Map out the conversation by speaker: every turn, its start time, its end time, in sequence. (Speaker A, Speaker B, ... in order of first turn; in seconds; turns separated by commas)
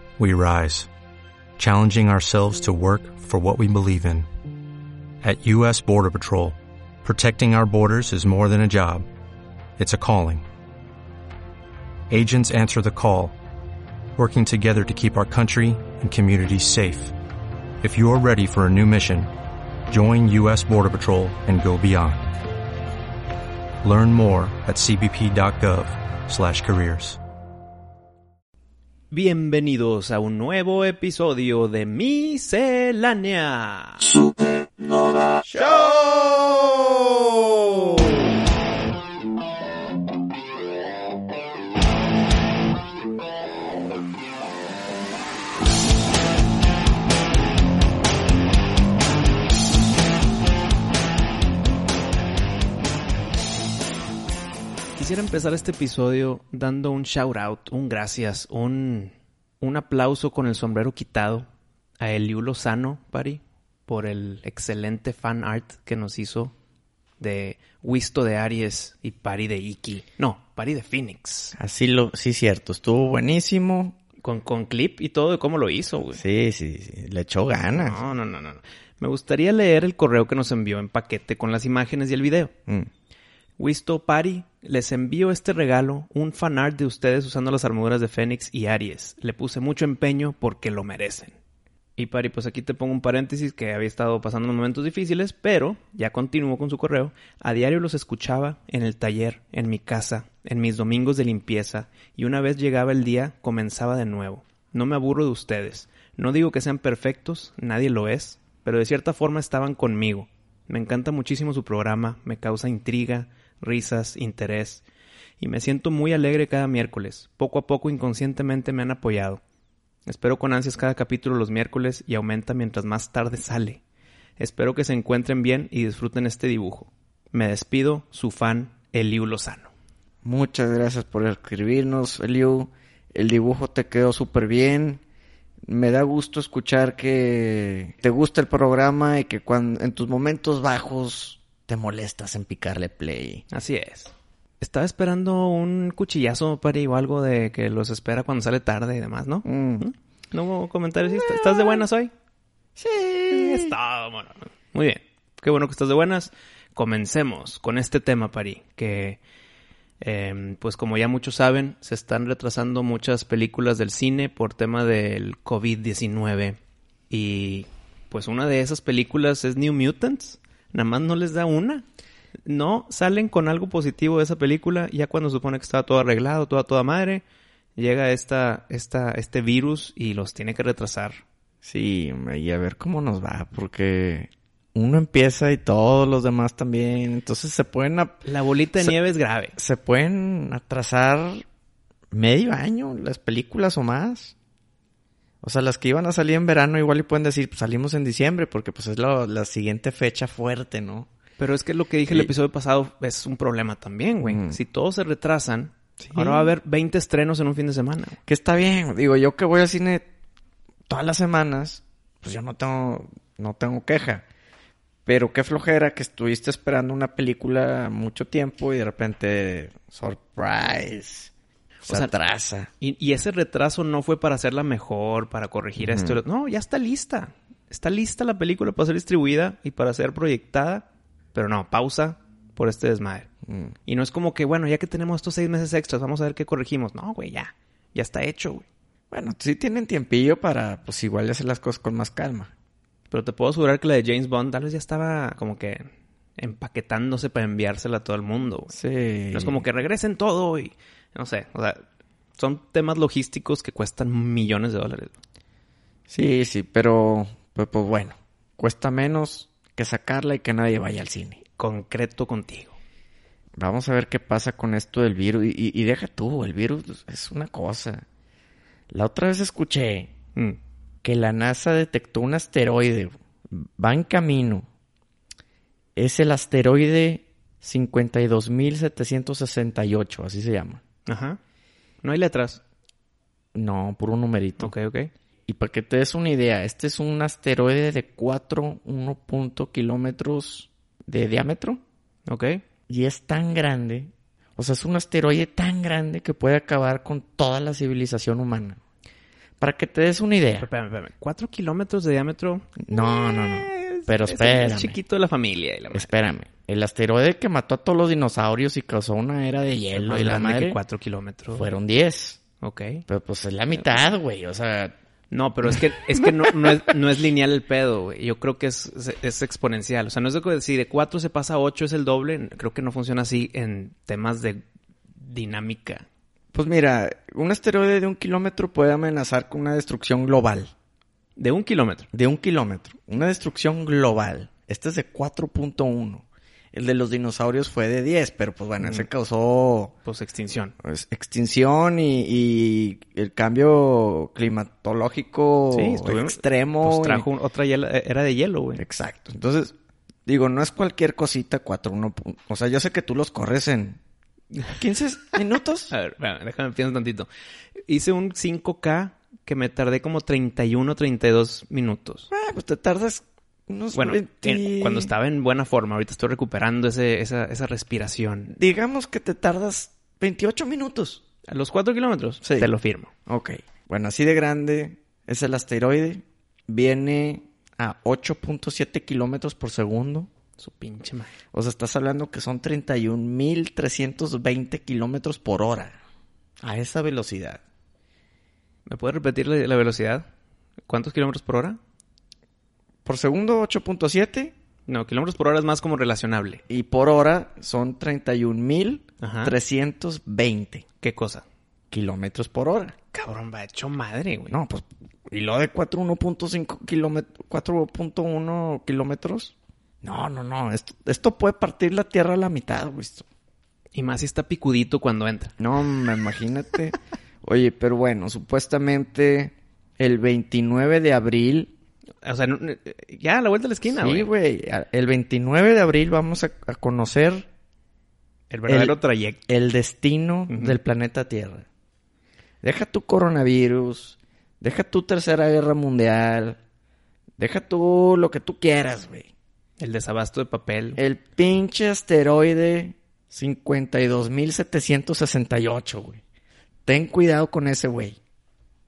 Speaker A: 0.2-0.9, Speaker A: 1.6-4.3, Speaker A: 5.2-9.1, Speaker A: 9.8-10.4, Speaker A: 12.1-13.3, Speaker A: 14.2-17.1, Speaker A: 17.8-19.3, Speaker A: 19.9-22.3, Speaker A: 23.8-27.2, Speaker B: 29.1-34.1, Speaker C: 35.4-38.3, Speaker B: 55.0-61.5, Speaker B: 62.0-66.5, Speaker B: 67.2-71.6, Speaker C: 71.6-74.0, Speaker B: 74.2-76.2, Speaker C: 76.2-78.0, Speaker B: 77.7-82.5, Speaker B: 83.6-91.4, Speaker B: 92.0-114.8, Speaker B: 115.4-119.4, Speaker B: 120.1-123.8, Speaker B: 124.4-129.7, Speaker C: 130.2-135.0, Speaker C: 135.7-143.4, Speaker B: 143.5-152.1, Speaker C: 149.4-149.9, Speaker C: 151.2-151.8, Speaker C: 152.8-153.7, Speaker B: 153.3-159.2, Speaker B: 160.0-166.6, Speaker B: 167.1-171.8, Speaker B: 172.5-177.2, Speaker B: 177.8-181.2, Speaker C: 181.6-188.2, Speaker B: 188.2-189.6, Speaker C: 189.6-191.4, Speaker C: 192.1-194.3, Speaker C: 195.4-201.1, Speaker B: 201.4-208.2, Speaker C: 204.2-204.6, Speaker C: 206.0-206.5, Speaker C: 208.3-210.1, Speaker C: 210.9-214.2, Speaker C: 215.1-221.3, Speaker C: 221.9-222.7, Speaker B: 221.9-222.2, Speaker B: 222.8-233.3, Speaker C: 225.8-226.2, Speaker C: 233.5-233.8, Speaker B: 233.9-238.7, Speaker C: 239.1-242.5, Speaker B: 243.1-245.9, Speaker B: 246.4-248.8, Speaker C: 248.7-249.6, Speaker B: 249.3-251.8, Speaker B: 252.4-255.2, Speaker C: 256.1-261.4, Speaker B: 261.6-262.8, Speaker C: 263.6-268.1, Speaker C: 268.9-270.1, Speaker C: 271.0-274.7, Speaker C: 276.0-280.8, Speaker B: 281.1-281.4, Speaker B: 282.0-282.6, Speaker C: 283.5-284.7, Speaker B: 284.6-285.1, Speaker C: 285.5-291.8, Speaker B: 292.3-292.6, Speaker C: 292.9-298.8, Speaker C: 299.6-300.7, Speaker B: 300.6-306.1, Speaker C: 302.8-305.0, Speaker C: 305.9-310.8, Speaker B: 309.9-311.7, Speaker C: 311.5-312.4, Speaker B: 312.6-313.1, Speaker C: 313.1-315.0, Speaker B: 315.3-324.6, Speaker C: 315.7-316.8, Speaker B: 325.2-326.1, Speaker C: 326.5-330.7, Speaker B: 331.4-332.1, Speaker C: 332.1-339.9, Speaker B: 338.8-339.1, Speaker B: 340.1-340.8, Speaker C: 340.8-347.3, Speaker B: 345.7-348.9, Speaker C: 348.8-349.8, Speaker C: 350.3-354.0, Speaker C: 354.8-355.9, Speaker B: 355.9-357.3, Speaker B: 357.9-362.3, Speaker C: 362.3-365.1, Speaker B: 363.9-368.6, Speaker C: 368.5-371.2, Speaker B: 371.5-373.1, Speaker C: 372.4-372.7, Speaker C: 373.3-380.3, Speaker B: 380.6-381.3, Speaker C: 381.5-386.0, Speaker C: 386.6-387.6, Speaker B: 388.9-390.3, Speaker B: 390.9-391.8, Speaker C: 393.1-394.5, Speaker B: 394.9-396.6, Speaker C: 396.7-400.9, Speaker B: 399.2-399.6, Speaker B: 401.0-401.4, Speaker C: 401.9-403.0, Speaker B: 403.1-404.6, Speaker C: 404.5-413.3, Speaker B: 413.9-415.6, Speaker C: 415.6-421.7, Speaker B: 422.2-424.3, Speaker C: 423.9-427.5, Speaker B: 428.5-429.4, Speaker C: 428.7-429.0, Speaker C: 429.5-431.6, Speaker B: 430.5-430.8, Speaker C: 432.6-436.6, Speaker C: 437.4-439.3, Speaker B: 439.8-441.0, Speaker C: 441.0-446.2, Speaker C: 446.9-448.2